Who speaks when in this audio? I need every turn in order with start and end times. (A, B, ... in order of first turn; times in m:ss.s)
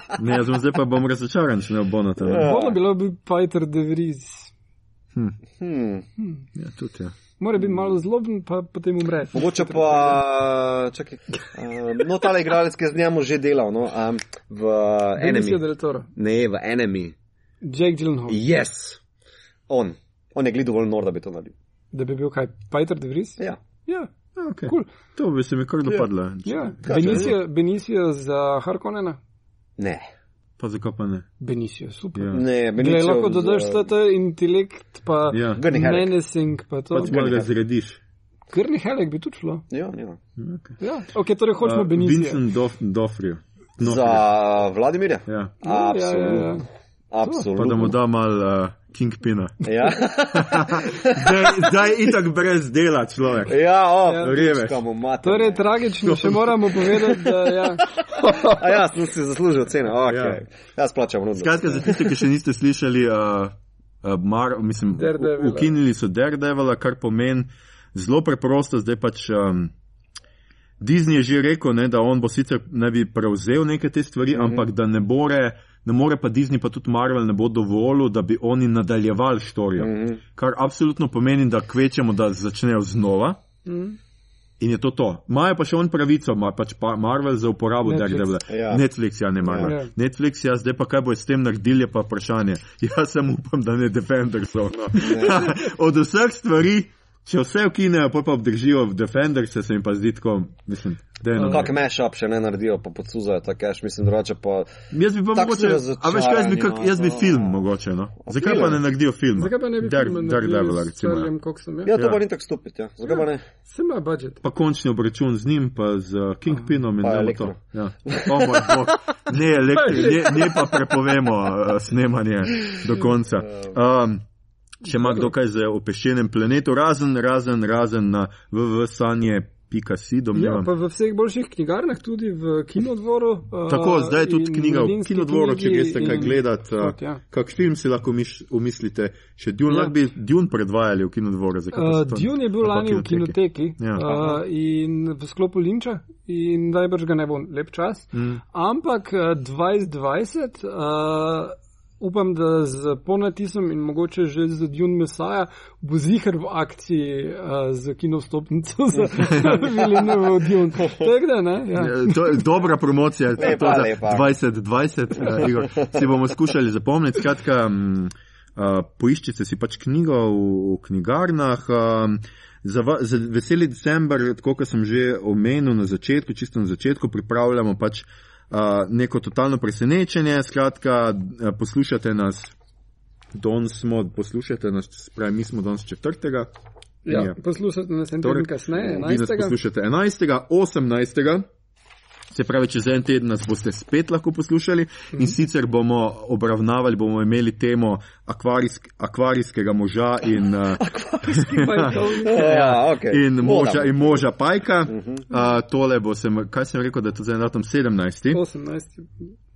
0:00.2-0:02.5 A
0:02.2-0:02.8 B
0:02.4-0:04.5 C
0:05.6-0:06.0 B
0:06.5-0:07.1 A
0:07.4-0:10.2 C
0:09.3-0:15.6 B
0:15.2-0:16.1 C
0:16.1-0:17.1 B
0:17.6-0:18.4 C
0:18.3-0:19.0 B
0:19.7-0:21.5 B
0:21.9-0:24.1 C
0:24.4-0:27.3 A
0:26.4-0:29.2 C
0:26.8-0:27.3 B
0:29.8-0:30.0 B
0:30.6-0:31.3 A
0:31.4-0:37.1 C
0:32.1-0:32.4 A
0:32.3-0:33.9 B
0:35.3-0:35.6 A
0:35.5-0:36.1 B
0:36.9-0:38.0 A
0:37.0-0:37.5 B
0:38.5-0:39.6 C
0:39.7-0:40.2 B
0:40.4-0:40.8 A
0:40.8-0:42.4 C
0:41.6-0:44.2 A
0:43.8-0:46.6 B
0:45.3-0:45.5 A
0:45.6-0:46.6 C
0:47.1-0:48.0 B
0:47.2-0:47.5 C
0:47.5-0:49.6 A
0:49.6-0:52.1 B
0:50.3-0:53.6 A
0:53.5-0:55.6 B
0:54.1-0:54.3 C
0:54.2-0:54.8 A
0:55.2-0:57.8 C
0:56.0-0:57.3 A
0:58.1-0:58.6 A
0:58.4-1:02.2 B
1:00.1-1:00.4 A
1:01.3-1:09.7 A
1:05.0-1:05.7 C
1:10.8-1:23.4 A
1:14.3-1:14.6 B
1:19.8-1:20.2 B
1:23.6-1:24.0 C
1:24.6-1:41.7 A
1:27.8-1:28.3 C
1:28.5-1:28.8 B
1:29.4-1:29.7 B
1:29.6-1:29.9 C
1:35.0-1:35.4 B
1:41.4-1:41.7 C
1:41.4-1:44.7 B
1:44.9-1:51.3 A
1:45.3-1:47.6 B
1:48.2-1:48.8 B
1:49.4-1:51.9 C
1:51.8-1:53.4 B
1:53.7-1:54.4 C
1:54.4-2:04.2 A
1:57.0-1:58.8 B
1:59.8-2:00.9 C
2:04.8-2:10.7 A
2:10.3-2:17.2 C
2:13.7-2:24.3 A
2:19.7-2:19.9 C
2:21.7-2:42.4 C
2:28.1-2:28.4 A
2:39.2-2:39.6 A
2:41.8-3:02.5 A
2:43.4-2:44.3 B
2:45.3-2:46.0 B
3:03.3-3:06.5 A
3:07.0-3:09.5 C
3:07.1-3:07.4 A
3:08.2-3:11.4 A
3:12.3-3:28.4 A
3:20.8-3:24.2 B
3:21.3-3:22.8 C
3:24.9-3:25.2 B
3:28.3-3:29.1 C